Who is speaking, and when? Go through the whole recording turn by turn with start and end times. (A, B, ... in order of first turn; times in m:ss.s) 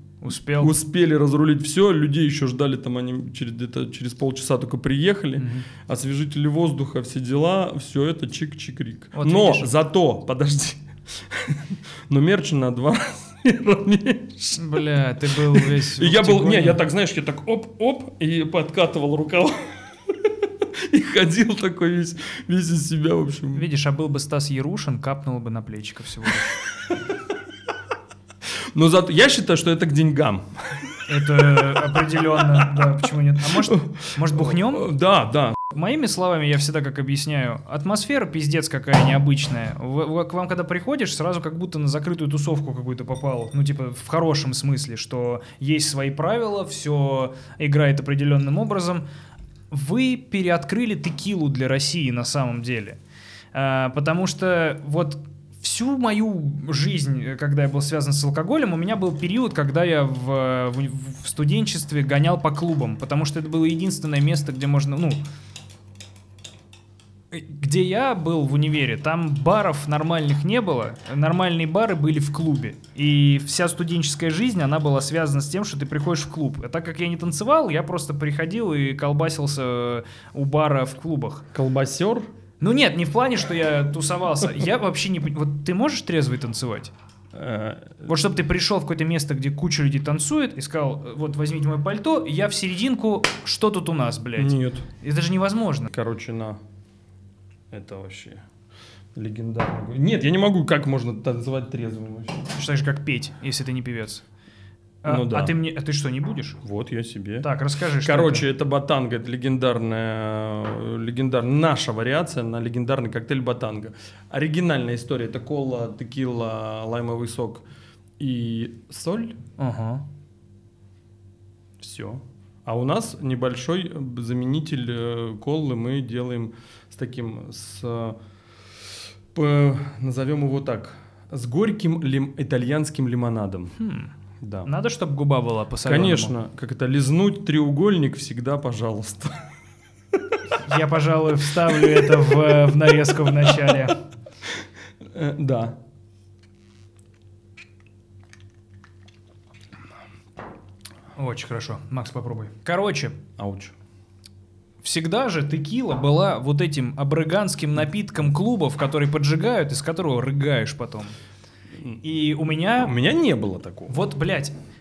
0:00.2-0:00.7 A
0:00.6-0:23.6 B
0:05.4-0:05.7 A
0:09.1-0:09.7 A
0:14.6-0:16.8 A
0:23.5-0:26.6 A
0:28.7-0:35.6 B
0:31.1-0:34.9 A
0:35.7-0:49.0 A
0:49.7-0:53.0 A
0:53.5-1:05.2 A
1:07.3-1:21.4 A
1:21.5-1:22.3 B
1:22.6-1:26.9 A
1:27.3-1:28.1 B
1:28.0-1:35.9 A
1:34.4-1:34.9 B
1:35.9-1:36.6 B
1:37.7-1:38.4 B
1:39.1-1:42.5 B
1:42.5-1:44.2 A
1:45.0-1:46.6 A
1:45.0-1:45.6 B
1:46.6-1:47.5 B
1:47.4-1:48.4 A
1:48.0-1:57.6 B
1:58.2-1:59.4 B
1:59.6-2:00.0 A
2:01.8-2:08.2 B
2:09.3-2:13.8 B
2:13.8-2:14.1 A
2:14.4-2:14.7 B
2:14.6-2:16.3 A
2:15.8-2:19.5 B
2:20.1-2:20.6 B
2:20.6-2:24.0 A
2:21.7-2:22.7 B
2:23.4-2:23.9 B
2:24.4-2:25.8 B
2:31.2-2:33.2 A
2:33.4-2:33.7 B
2:34.8-2:41.2 A
2:41.7-2:42.0 B
2:42.0-2:42.9 A
2:42.8-2:44.0 B
2:43.9-2:44.5 A